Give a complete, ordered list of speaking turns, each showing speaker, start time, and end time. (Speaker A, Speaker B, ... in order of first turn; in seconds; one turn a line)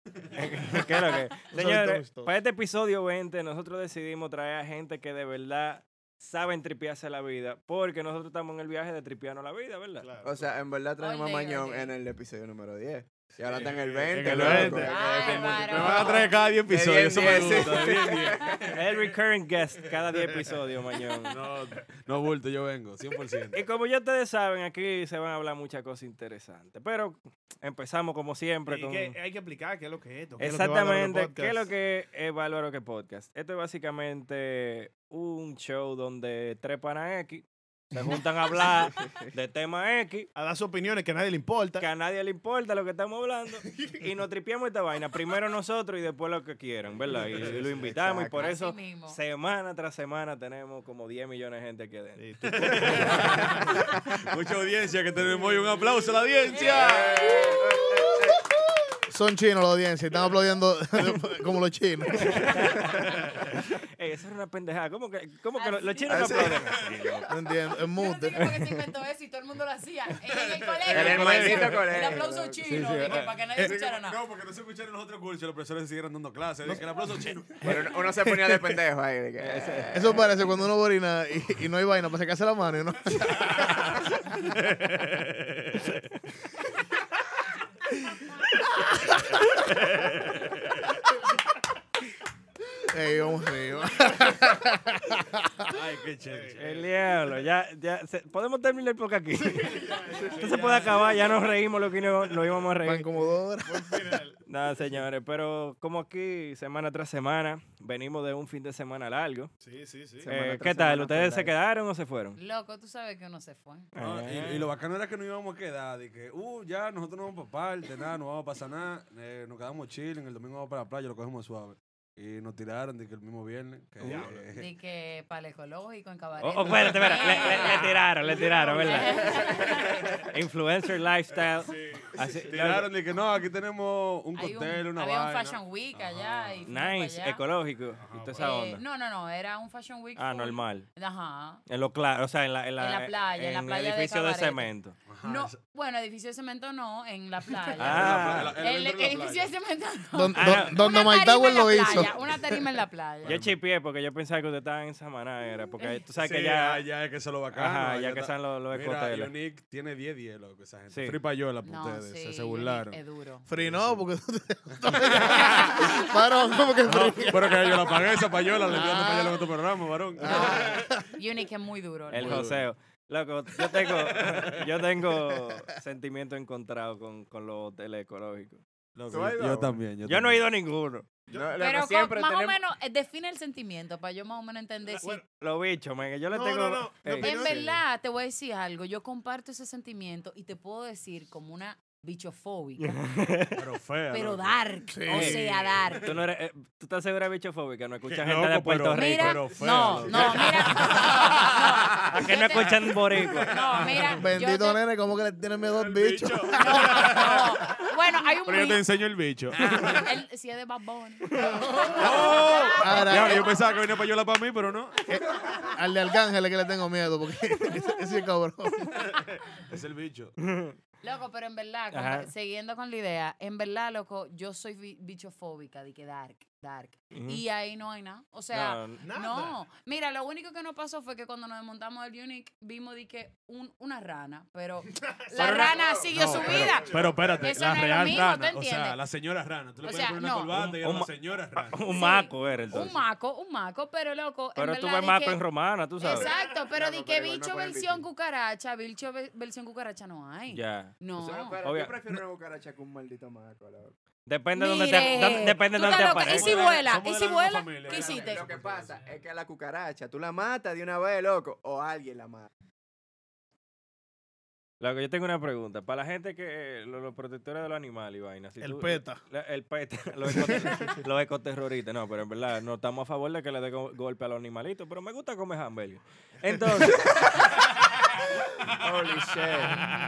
Speaker A: 0.2-0.9
Speaker B: 0.3-10.1
Speaker C: 1.6-2.2
Speaker D: 1.6-2.2
Speaker C: 10.0-10.3
Speaker E: 10.2-18.5
Speaker F: 11.0-11.9
Speaker A: 13.4-19.1
Speaker C: 13.4-16.2
Speaker F: 14.7-16.3
Speaker B: 18.7-21.4
Speaker A: 21.3-23.6
Speaker B: 23.5-29.2
Speaker C: 28.7-31.7
Speaker B: 30.4-40.3
Speaker C: 40.4-41.9
Speaker B: 41.8-52.2
Speaker A: 47.1-47.9
Speaker E: 47.6-48.5
Speaker F: 48.4-49.2
Speaker C: 52.2-53.8
Speaker A: 52.5-57.6
Speaker F: 56.5-57.6
Speaker E: 56.7-58.4
Speaker D: 59.1-62.5
Speaker B: 62.3-63.4
Speaker B: 64.0-67.3
Speaker F: 65.6-66.6
Speaker E: 66.1-66.8
Speaker D: 67.3-68.4
Speaker F: 67.8-74.2
Speaker A: 70.3-72.1
Speaker E: 70.9-73.2
Speaker A: 73.1-78.0
Speaker E: 77.6-80.3
Speaker B: 79.4-79.9
Speaker D: 79.9-83.9
Speaker A: 83.4-84.0
Speaker A: 89.7-90.6
Speaker D: 92.9-95.4
Speaker A: 95.6-96.8
Speaker C: 96.3-96.6
Speaker B: 96.6-103.1
Speaker C: 99.6-100.9
Speaker A: 100.2-102.7
Speaker D: 102.8-104.2
Speaker C: 103.7-104.4
Speaker B: 104.5-109.5
Speaker C: 109.6-110.3
Speaker E: 110.2-111.5
Speaker B: 110.3-112.4
Speaker F: 112.4-113.9
Speaker B: 114.0-114.7
Speaker A: 114.0-124.7
Speaker C: 124.0-124.5
Speaker F: 124.5-128.0
Speaker B: 126.4-129.6
Speaker A: 127.1-127.6
Speaker A: 128.3-130.3
Speaker F: 128.8-130.2
Speaker B: 130.2-132.9
Speaker A: 131.3-136.7
Speaker F: 134.3-137.4
Speaker B: 136.7-138.8
Speaker A: 138.0-138.5
Speaker F: 138.4-141.6
Speaker B: 140.2-140.9
Speaker B: 141.7-145.0
Speaker F: 142.8-153.4
Speaker A: 145.1-145.6
Speaker A: 147.7-149.5
Speaker B: 147.8-148.6
Speaker D: 150.1-152.2
Speaker B: 150.4-150.9
Speaker A: 153.2-153.6
Speaker B: 153.2-156.8
Speaker A: 156.2-163.0
Speaker B: 157.5-159.3
Speaker B: 160.9-161.2
Speaker F: 161.6-163.4
Speaker D: 163.5-168.1
Speaker A: 163.5-164.1
Speaker A: 164.7-166.0
Speaker A: 166.9-170.9
Speaker D: 168.7-169.5
Speaker F: 170.2-172.4
Speaker D: 170.2-171.0
Speaker B: 172.1-178.6
Speaker A: 172.1-172.7
Speaker A: 173.7-174.5
Speaker A: 178.9-180.5
Speaker E: 179.1-179.8
Speaker B: 180.1-181.1
Speaker E: 181.3-182.6
Speaker F: 181.6-185.2
Speaker C: 184.9-185.2
Speaker B: 185.0-187.6
Speaker C: 186.3-187.8
Speaker F: 187.2-193.0
Speaker B: 192.8-193.6
Speaker A: 193.6-194.6
Speaker F: 194.1-196.1
Speaker D: 194.9-195.5
Speaker B: 195.1-195.4
Speaker B: 196.0-201.1
Speaker A: 198.1-204.2
Speaker F: 198.9-204.8
Speaker B: 202.1-203.6
Speaker D: 204.2-207.2
Speaker A: 205.7-207.9
Speaker F: 206.5-208.8
Speaker A: 208.4-210.1
Speaker F: 209.6-213.4
Speaker A: 211.9-215.0
Speaker D: 212.7-213.5
Speaker D: 215.1-219.1
Speaker A: 219.0-220.3
Speaker B: 220.4-220.8
Speaker F: 221.0-239.0
Speaker B: 221.9-222.3
Speaker B: 227.1-227.4
Speaker B: 228.5-229.0
Speaker C: 229.0-229.6
Speaker C: 235.2-237.5
Speaker B: 235.3-235.8
Speaker A: 236.1-241.8
Speaker F: 239.8-240.6
Speaker B: 240.5-242.9
Speaker F: 241.9-245.4
Speaker A: 242.7-243.0
Speaker B: 244.6-246.3
Speaker F: 246.0-251.6
Speaker E: 246.7-248.1
Speaker B: 250.5-250.9
Speaker E: 251.2-253.9
Speaker B: 251.6-252.0
Speaker B: 254.3-256.7
Speaker F: 254.6-258.5
Speaker A: 256.2-259.1
Speaker E: 257.9-262.5
Speaker B: 264.8-277.3
Speaker D: 268.7-269.2
Speaker E: 278.8-279.9